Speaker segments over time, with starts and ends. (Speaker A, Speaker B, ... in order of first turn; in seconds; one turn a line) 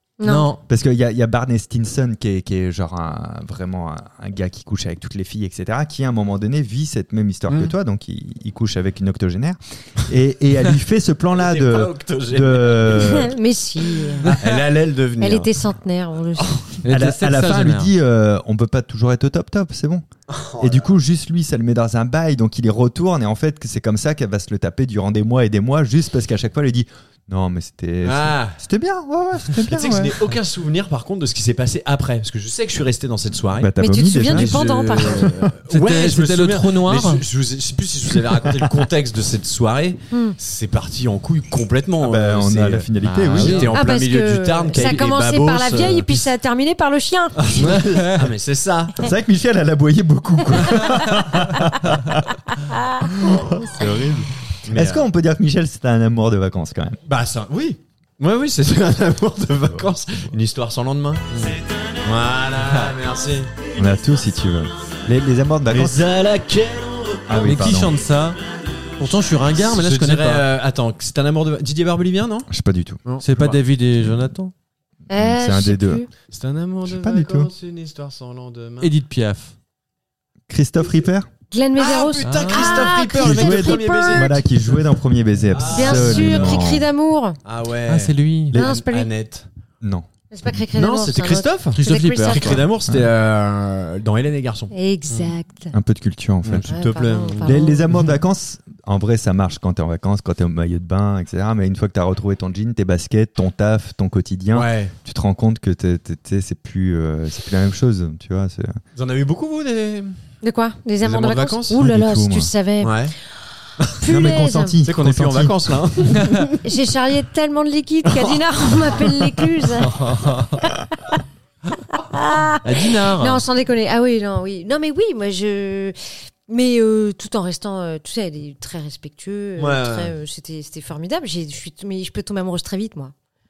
Speaker A: 0.2-0.5
Speaker B: 0.2-0.6
Speaker C: 0.7-13.3
Speaker D: 7.5-7.7
Speaker D: 11.3-13.3
Speaker A: 12.9-14.3
Speaker B: 14.2-14.6
Speaker D: 14.3-15.5
Speaker A: 15.2-16.6
Speaker D: 16.4-16.7
Speaker B: 16.8-17.9
Speaker C: 16.9-20.0
Speaker D: 20.3-20.9
Speaker C: 20.6-30.2
Speaker D: 28.0-28.6
Speaker D: 29.6-33.7
Speaker C: 33.5-34.6
Speaker A: 33.8-35.4
Speaker D: 34.3-46.2
Speaker B: 35.7-37.2
Speaker A: 40.1-40.4
Speaker C: 42.0-43.7
Speaker B: 43.0-43.8
Speaker A: 43.7-47.5
Speaker D: 47.4-49.1
Speaker B: 47.5-48.3
Speaker C: 49.0-52.3
Speaker A: 51.1-51.6
Speaker A: 52.7-53.0
Speaker C: 53.0-57.0
Speaker D: 54.6-55.0
Speaker D: 57.0-61.2
Speaker B: 61.3-61.6
Speaker D: 62.0-63.5
Speaker C: 63.8-66.0
Speaker D: 65.7-67.5
Speaker C: 67.3-68.0
Speaker B: 67.3-68.4
Speaker B: 69.0-70.5
Speaker D: 69.5-72.5
Speaker C: 72.5-73.0
Speaker D: 73.0-73.6
Speaker B: 73.2-74.5
Speaker A: 75.1-76.1
Speaker C: 75.1-76.0
Speaker D: 76.3-78.9
Speaker C: 76.8-77.5
Speaker B: 78.8-79.5
Speaker C: 80.5-81.3
Speaker A: 81.5-84.4
Speaker D: 81.8-84.8
Speaker B: 82.2-83.0
Speaker C: 83.1-86.8
Speaker D: 85.5-86.8
Speaker A: 85.7-87.4
Speaker D: 87.4-89.5
Speaker B: 87.8-88.6
Speaker C: 88.5-88.8
Speaker A: 88.5-89.1
Speaker C: 89.8-90.6
Speaker A: 90.3-92.6
Speaker D: 90.7-94.7
Speaker B: 91.8-92.6
Speaker C: 92.8-93.1
Speaker A: 94.7-95.8
Speaker C: 95.7-96.7
Speaker D: 96.4-98.0
Speaker A: 96.7-97.9
Speaker C: 97.4-108.8
Speaker D: 104.5-104.9
Speaker D: 108.9-110.2
Speaker A: 110.4-112.9
Speaker D: 111.0-111.8
Speaker C: 111.7-112.5
Speaker D: 112.8-113.1
Speaker A: 113.9-114.8
Speaker C: 114.0-115.8
Speaker D: 114.8-116.6
Speaker A: 116.6-119.9
Speaker B: 119.8-120.7
Speaker A: 120.7-121.2
Speaker A: 121.9-126.0
Speaker B: 122.6-123.4
Speaker A: 126.5-133.1
Speaker D: 129.6-130.1